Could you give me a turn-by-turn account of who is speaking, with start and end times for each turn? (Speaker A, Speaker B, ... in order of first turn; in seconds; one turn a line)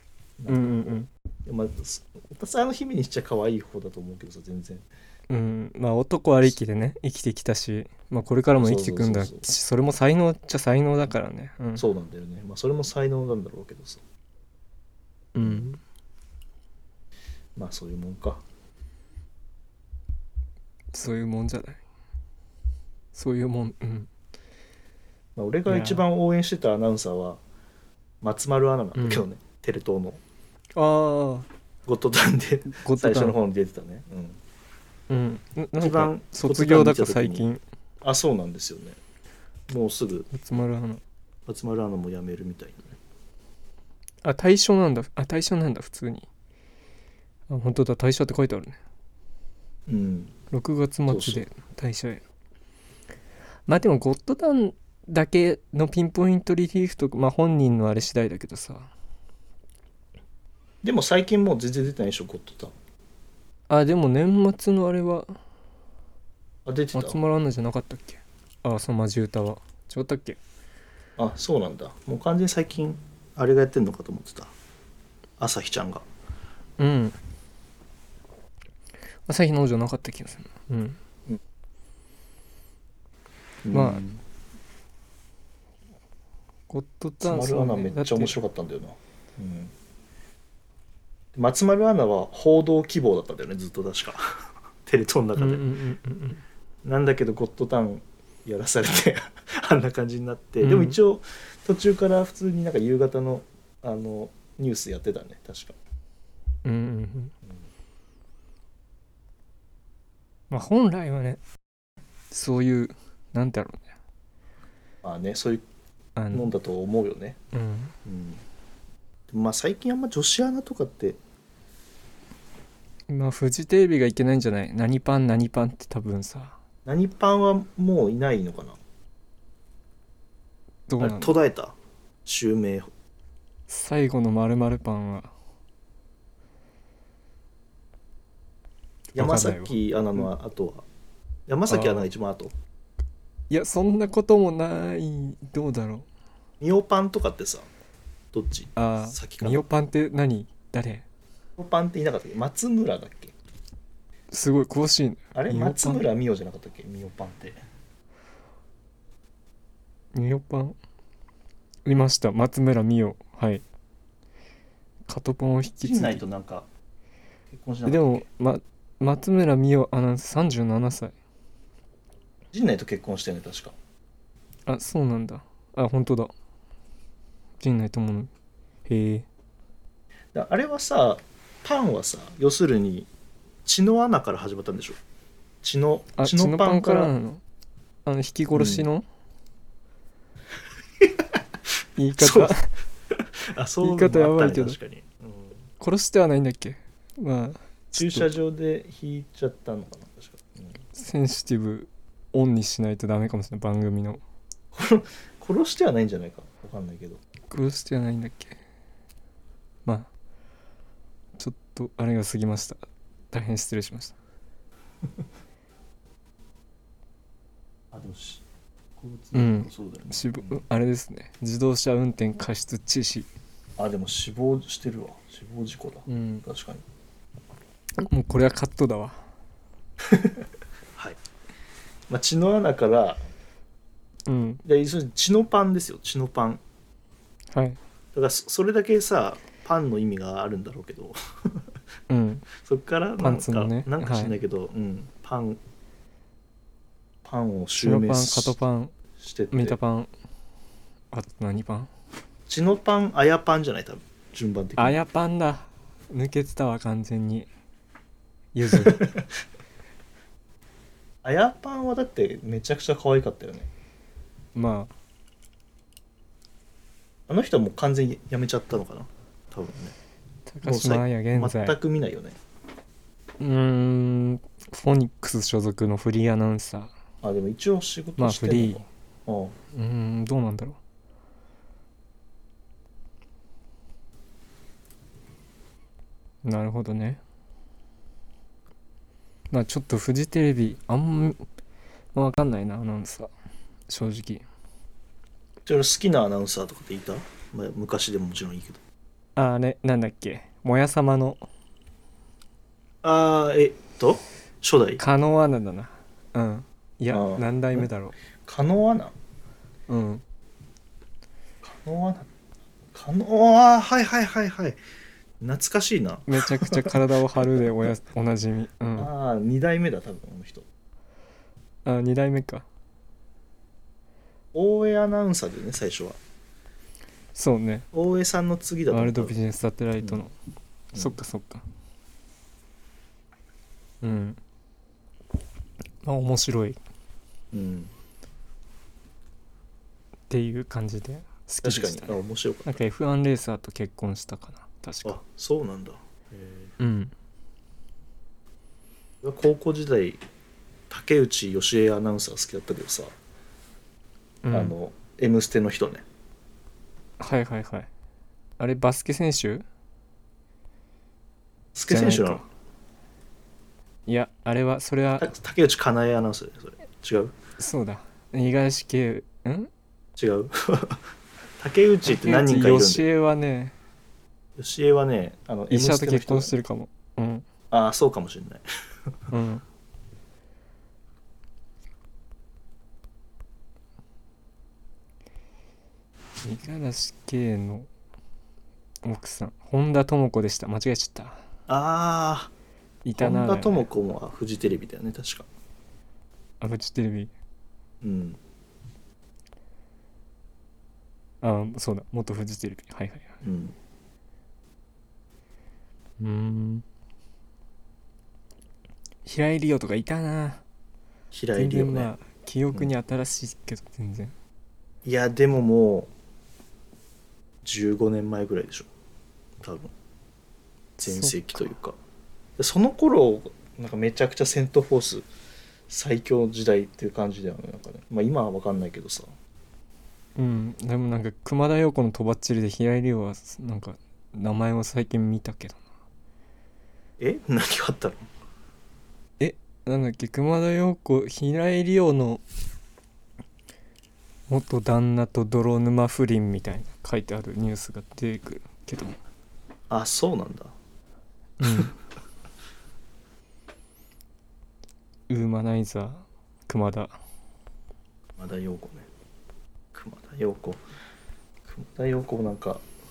Speaker A: 0.4-4.8
Speaker B: 0.5-1.1
Speaker B: 5.3-11.8
Speaker A: 8.6-9.5
Speaker A: 11.8-14.0
Speaker B: 15.3-15.8
Speaker A: 15.4-15.7
Speaker A: 17.6-18.4
Speaker B: 20.9-21.8
Speaker B: 23.1-24.1
Speaker A: 25.4-27.4
Speaker B: 25.7-26.0
Speaker A: 28.2-30.2
Speaker B: 28.9-29.2
Speaker B: 30.7-31.5
Speaker A: 31.9-34.4
Speaker B: 32.7-33.3
Speaker B: 35.1-37.6
Speaker A: 35.8-37.5
Speaker A: 38.0-39.0
Speaker A: 39.7-40.3
Speaker B: 40.3-41.0
Speaker A: 41.5-42.9
Speaker B: 44.2-46.3
Speaker B: 47.5-48.8
Speaker A: 49.9-50.3
Speaker B: 50.5-52.2
Speaker A: 51.1-51.4
Speaker B: 53.7-58.9
Speaker A: 60.8-62.7
Speaker B: 63.7-65.3
Speaker A: 66.6-67.2
Speaker B: 66.9-70.4
Speaker A: 71.2-74.5
Speaker A: 75.4-76.0
Speaker B: 76.8-77.2
Speaker B: 79.3-81.0
Speaker A: 83.6-84.2
Speaker B: 83.7-84.0
Speaker B: 86.7-88.4
Speaker A: 87.2-89.7
Speaker A: 91.3-95.7
Speaker B: 95.4-96.4
Speaker A: 96.8-105.8
Speaker B: 100.6-101.0
Speaker B: 106.6-107.3
Speaker B: 110.5-111.4
Speaker B: 112.3-113.8
Speaker A: 115.0-115.6
Speaker B: 116.2-116.5
Speaker A: 116.3-117.4
Speaker B: 117.5-117.9
Speaker A: 118.0-118.4
Speaker A: 119.3-121.2
Speaker B: 123.1-126.6
Speaker A: 126.8-128.8
Speaker B: 130.9-131.3
Speaker A: 131.0-132.9
Speaker B: 133.7-135.3
Speaker B: 139.1-139.8
Speaker A: 139.1-140.8
Speaker A: 141.5-142.5
Speaker B: 141.7-142.1
Speaker B: 143.5-146.1
Speaker A: 146.6-147.7
Speaker A: 148.3-149.7
Speaker B: 148.8-151.0
Speaker A: 151.6-153.3
Speaker B: 154.3-156.0
Speaker A: 155.3-157.6
Speaker B: 160.1-160.8
Speaker B: 161.8-163.6
Speaker B: 165.1-166.2
Speaker A: 165.8-166.7
Speaker A: 167.5-168.2
Speaker B: 167.8-171.1
Speaker A: 172.5-173.8
Speaker B: 174.7-176.3
Speaker B: 177.6-178.3
Speaker B: 178.9-179.2
Speaker A: 180.3-183.1
Speaker A: 183.6-185.0
Speaker A: 185.6-187.1
Speaker B: 186.2-187.4
Speaker B: 188.0-189.1
Speaker A: 188.5-188.9
Speaker A: 191.0-191.4
Speaker B: 192.0-192.7
Speaker A: 192.2-192.6
Speaker A: 193.1-195.6
Speaker B: 193.8-194.8
Speaker B: 195.8-198.3
Speaker A: 197.9-200.8
Speaker B: 200.9-204.2
Speaker A: 204.7-207.2
Speaker B: 207.5-208.6
Speaker B: 211.4-212.8
Speaker B: 213.3-214.1
Speaker A: 217.9-218.4
Speaker A: 219.0-220.6
Speaker B: 219.3-223.3
Speaker A: 223.8-226.8
Speaker B: 226.1-226.4
Speaker B: 228.0-229.2
Speaker A: 230.0-230.4
Speaker A: 232.1-233.2
Speaker B: 234.3-234.6
Speaker A: 234.6-236.6
Speaker B: 237.5-237.8
Speaker A: 238.1-241.6
Speaker B: 242.1-242.5
Speaker A: 242.6-245.6
Speaker B: 243.2-244.4
Speaker A: 247.2-248.6
Speaker B: 247.8-248.9
Speaker A: 249.2-249.8
Speaker B: 249.5-250.1
Speaker B: 251.1-251.9
Speaker A: 252.5-255.0
Speaker B: 254.8-257.5
Speaker B: 258.5-259.1
Speaker A: 258.7-259.2
Speaker A: 261.2-263.7
Speaker B: 264.5-264.9
Speaker A: 267.3-269.9
Speaker B: 270.5-271.8
Speaker A: 270.6-272.4
Speaker B: 273.4-276.9
Speaker A: 277.2-279.6
Speaker B: 278.2-278.9
Speaker B: 279.7-280.8
Speaker B: 286.4-287.2
Speaker B: 289.5-291.4
Speaker B: 292.1-293.3
Speaker B: 293.9-294.4
Speaker A: 295.6-298.8
Speaker B: 299.4-301.4
Speaker A: 303.0-305.0
Speaker B: 305.0-308.1
Speaker A: 307.1-307.9
Speaker A: 308.4-309.1
Speaker B: 309.9-310.2
Speaker A: 311.6-312.3
Speaker A: 312.9-314.8
Speaker A: 315.4-317.7
Speaker B: 316.3-319.1
Speaker A: 319.0-320.6
Speaker B: 321.8-322.6
Speaker A: 324.5-326.2
Speaker B: 327.3-327.9
Speaker A: 327.9-329.4
Speaker B: 328.9-330.3
Speaker B: 330.9-331.6
Speaker B: 334.0-334.4
Speaker B: 336.0-336.8
Speaker A: 337.5-337.9
Speaker B: 340.3-345.2
Speaker A: 341.6-342.8
Speaker A: 345.0-346.7
Speaker B: 346.8-347.1
Speaker A: 349.2-350.2
Speaker A: 350.9-353.1
Speaker B: 354.4-354.7
Speaker A: 354.5-356.0
Speaker B: 357.2-357.9
Speaker B: 358.6-359.6
Speaker A: 361.7-362.4
Speaker B: 361.9-362.4
Speaker B: 364.1-365.3
Speaker A: 365.2-367.3
Speaker B: 367.6-369.7
Speaker A: 370.2-371.1
Speaker A: 371.6-373.1
Speaker B: 372.1-373.7
Speaker A: 374.6-376.5
Speaker B: 375.7-377.4
Speaker A: 377.7-378.6
Speaker B: 379.3-379.6
Speaker B: 386.4-387.9
Speaker B: 389.0-391.4
Speaker A: 391.7-392.5
Speaker B: 393.0-393.9
Speaker A: 393.2-395.5
Speaker B: 396.6-397.3
Speaker A: 398.0-398.4
Speaker B: 401.4-403.3
Speaker A: 403.4-403.7
Speaker B: 406.2-406.8
Speaker B: 409.2-410.6
Speaker A: 411.3-412.1
Speaker B: 411.5-414.3
Speaker A: 415.0-416.1
Speaker A: 417.6-418.9
Speaker A: 419.6-419.9
Speaker B: 421.0-421.7
Speaker A: 421.0-422.0
Speaker A: 422.6-425.3
Speaker A: 425.9-429.3
Speaker B: 430.4-435.8
Speaker A: 437.2-438.2
Speaker B: 439.4-442.4
Speaker B: 444.5-449.2
Speaker A: 449.9-450.7
Speaker B: 451.6-451.9
Speaker B: 455.3-457.2
Speaker A: 458.4-459.1
Speaker A: 459.9-460.8
Speaker A: 461.6-462.8